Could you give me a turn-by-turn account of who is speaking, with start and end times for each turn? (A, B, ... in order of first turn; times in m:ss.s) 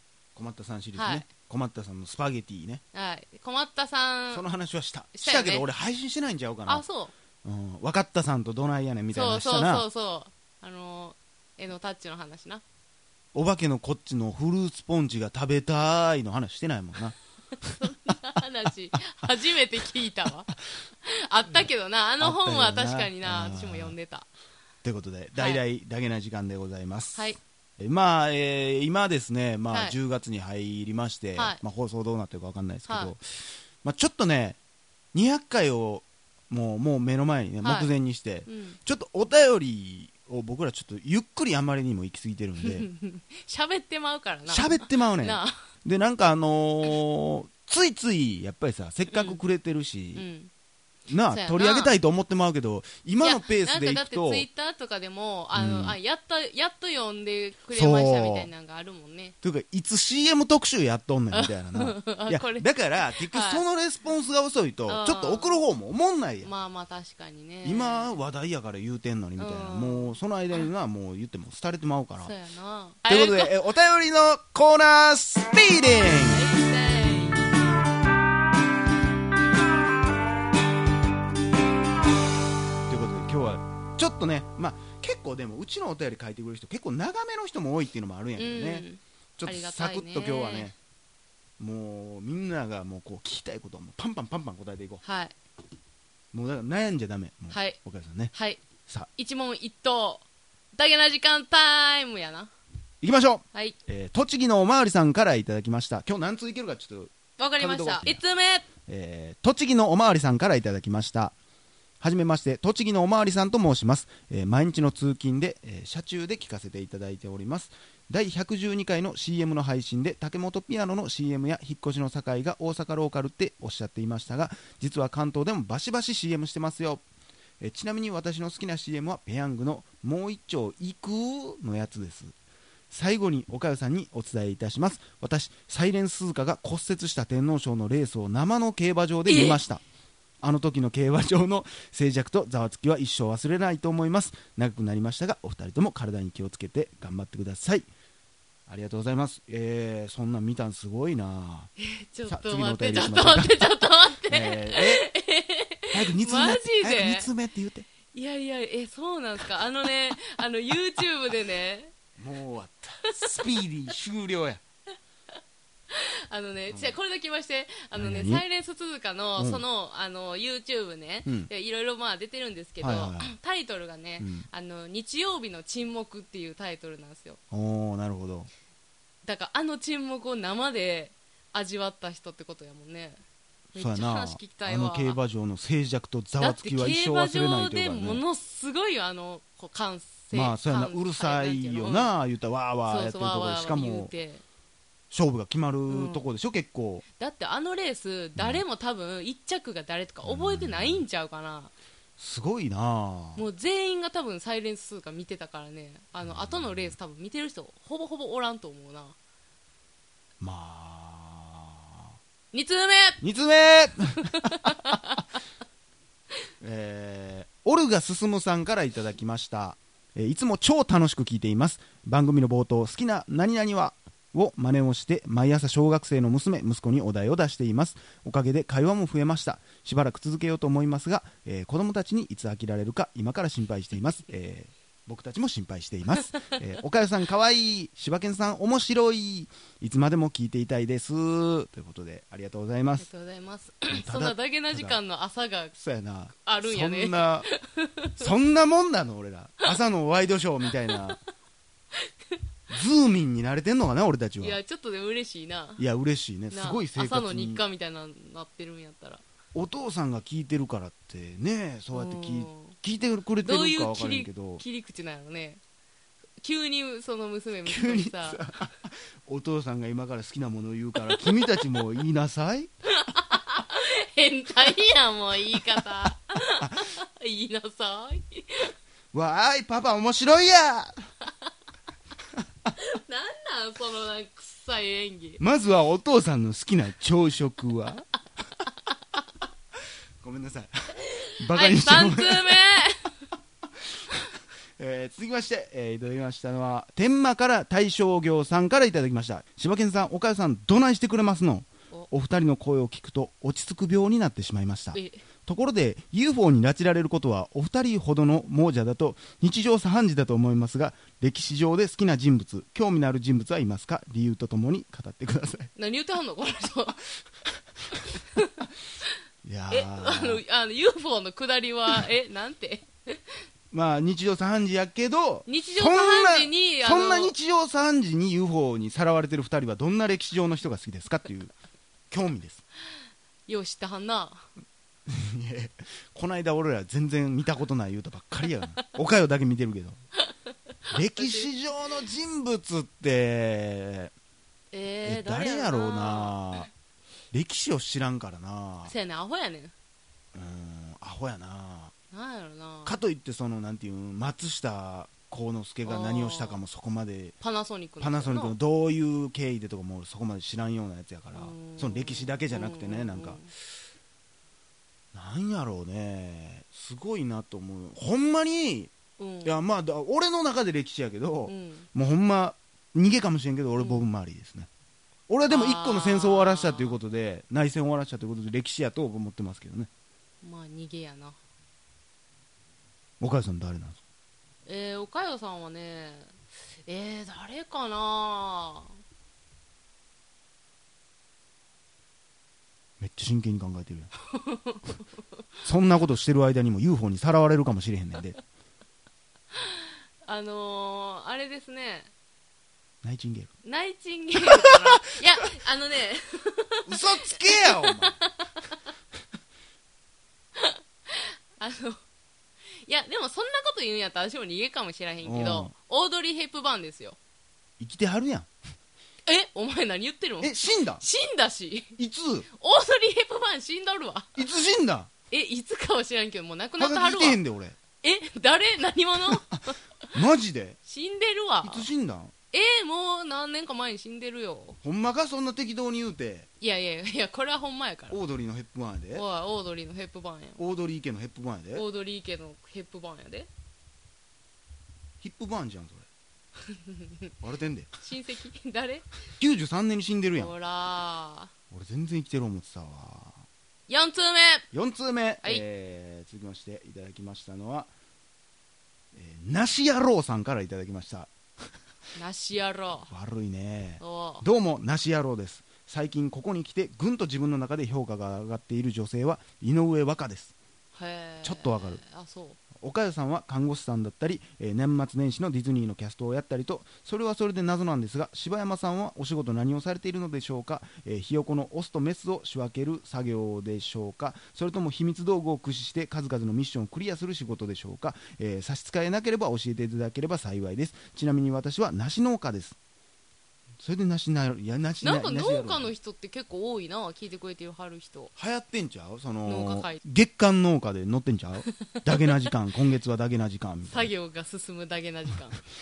0:00.4-0:02.8 A
0:01.0-0:01.3 B
0:02.9-0:04.4 B
0:04.3-0:06.8 A
0:05.2-0:05.7 B
0:06.7-0:07.1 B
0:07.4-0:09.9 A
0:09.1-0:12.6 B
0:13.3-0:17.2 A
0:17.8-0:20.5 B
0:21.0-0:24.3 B
0:22.2-0:24.0 A
0:24.8-0:33.2 A
0:33.8-0:34.6 A
0:35.1-0:42.9 A
0:37.6-0:37.9 B
0:38.5-0:38.8 B
0:42.6-0:45.6 B
0:44.5-0:50.3 A
0:49.1-0:49.4 B
0:50.2-0:50.5 B
0:51.1-0:54.5 A
0:51.3-0:52.0 B
0:53.2-0:59.4 B
0:55.6-0:56.0 A
0:57.7-0:58.5 A
0:59.4-1:06.5 A
1:01.3-1:03.6 B
1:04.9-1:05.6 B
1:06.4-1:08.1 B
1:07.6-1:12.4 A
1:09.4-1:10.7 B
1:12.2-1:13.5 B
1:13.1-1:16.5 A
1:16.3-1:17.6 B
1:22.9-1:28.9 A
1:28.4-1:30.7 B
1:29.4-1:30.8 A
1:31.6-1:35.0 A
1:35.0-1:35.4 B
1:36.3-1:38.3 A
1:37.5-1:37.8 B
1:38.3-1:38.6 B
1:39.2-1:42.5 B
1:43.0-1:48.2 A
1:47.4-1:48.7 B
1:48.9-1:51.4 A
1:52.0-2:07.0 A
2:07.6-2:12.4 A
2:12.9-2:19.8 A
2:19.3-2:19.6 B
2:20.4-2:27.9 A
2:28.7-2:31.7 A
2:31.8-2:37.3 B
2:32.3-2:35.1 A
2:35.9-2:37.9 A
2:38.1-2:41.9 B
2:42.2-2:44.6 A
2:45.9-2:57.4 B
2:46.7-2:47.0 A
2:48.0-2:48.4 A
2:49.4-2:49.6 A
2:52.8-2:53.3 A
2:54.2-2:54.5 A
2:57.5-2:58.5 A
2:59.2-3:03.2 B
3:03.7-3:05.2 B
3:03.8-3:08.2 A
3:06.4-3:12.1 B
3:10.3-3:14.1 A
3:12.9-3:14.4 B
3:15.1-3:17.0 A
3:15.9-3:16.2 B
3:17.2-3:21.7 B
3:18.4-3:18.6 A
3:20.2-3:21.0 A
3:22.2-3:23.5 A
3:23.4-3:29.2 B
3:26.3-3:27.0 A
3:30.4-3:32.0 A
3:32.5-3:33.2 B
3:33.2-3:35.0 A
3:34.3-3:35.3 B
3:36.6-4:03.1 A
4:03.0-4:05.7 B
4:03.9-4:05.0 A
4:05.8-4:07.5 A
4:06.4-4:08.2 B
4:08.2-4:11.2 A
4:12.7-4:14.6 A
4:14.4-4:15.8 B
4:15.8-4:17.6 A
4:16.5-4:19.2 B
4:19.5-4:24.6 A
4:21.9-4:22.8 B
4:23.4-4:25.6 B
4:26.4-4:28.5 B
4:27.6-4:32.7 A
4:33.0-4:38.7 B
4:36.6-4:36.9 A
4:39.1-4:40.9 A
4:42.8-4:45.4 B
4:45.4-4:48.1 A
4:50.2-4:52.6 A
4:51.2-4:53.1 B
4:54.8-5:15.7 A
5:04.9-5:05.2 B
5:15.8-5:17.0 B
5:18.2-5:18.5 B
5:19.4-5:20.4 A
5:19.7-5:23.3 B
5:23.7-5:31.6 A
5:25.5-5:27.3 B
5:32.1-5:32.6 A
5:33.5-5:34.5 B
5:35.1-5:40.0 A
5:40.9-5:44.1 A
5:41.2-5:41.5 B
5:44.7-5:46.4 B
5:45.0-5:46.7 A
5:47.3-5:48.9 A
5:48.9-5:49.7 B
5:50.3-5:51.9 A
5:52.1-5:53.0 B
5:52.8-5:57.4 A
5:55.8-5:56.6 B
5:57.4-5:58.6 B
5:58.0-6:03.4 A
6:01.3-6:03.5 B
6:05.1-6:08.9 A
6:09.2-6:09.6 B
6:09.4-6:14.7 A
6:11.5-6:11.9 B
6:13.8-6:14.1 B
6:15.3-6:19.9 A
6:15.5-6:17.0 B
6:20.4-6:21.4 B
6:23.2-6:24.0 A
6:24.6-6:26.4 B
6:26.9-6:29.0 B
6:33.0-6:34.1 A
6:34.3-6:35.0 B
6:35.6-6:38.4 A
6:39.6-6:42.1 B
6:43.0-6:43.5 A
6:43.6-6:48.7 B
6:44.5-6:45.2 A
6:46.9-6:48.2 A
6:50.6-6:52.0 B
6:52.8-6:57.2 B
6:55.2-6:55.7 A
6:57.8-6:58.5 A
6:59.3-7:02.0 B
7:00.4-7:01.0 A
7:02.0-7:02.5 A
7:02.5-7:04.5 B
7:04.4-7:05.1 A
7:05.3-7:07.4 B
7:06.8-7:07.8 A
7:08.0-7:09.8 B
7:09.3-7:09.6 A
7:10.1-7:10.8 A
7:10.9-7:11.9 B
7:11.6-7:12.3 A
7:12.5-7:14.8 B
7:14.8-7:16.5 A
7:16.6-7:18.2 B
7:18.1-7:19.2 A
7:19.1-7:20.6 B
7:20.6-7:21.9 A
7:21.7-7:23.5 B
7:25.2-7:26.1 A
7:27.4-7:27.9 A
7:28.0-7:29.1 B
7:29.4-7:30.6 A
7:30.4-7:31.5 B
7:31.7-7:33.4 A
7:33.9-7:34.7 B
7:34.7-7:37.9 A
7:39.1-7:41.3 A
7:42.2-7:43.1 B
7:43.1-7:50.6 A
7:44.0-7:44.4 B
7:50.9-7:52.6 B
7:51.4-7:52.0 A
7:52.8-8:12.8 A
8:13.8-8:15.9 A
8:15.0-8:18.3 B
8:18.4-8:24.1 A
8:19.5-8:20.0 B
8:23.8-8:25.6 B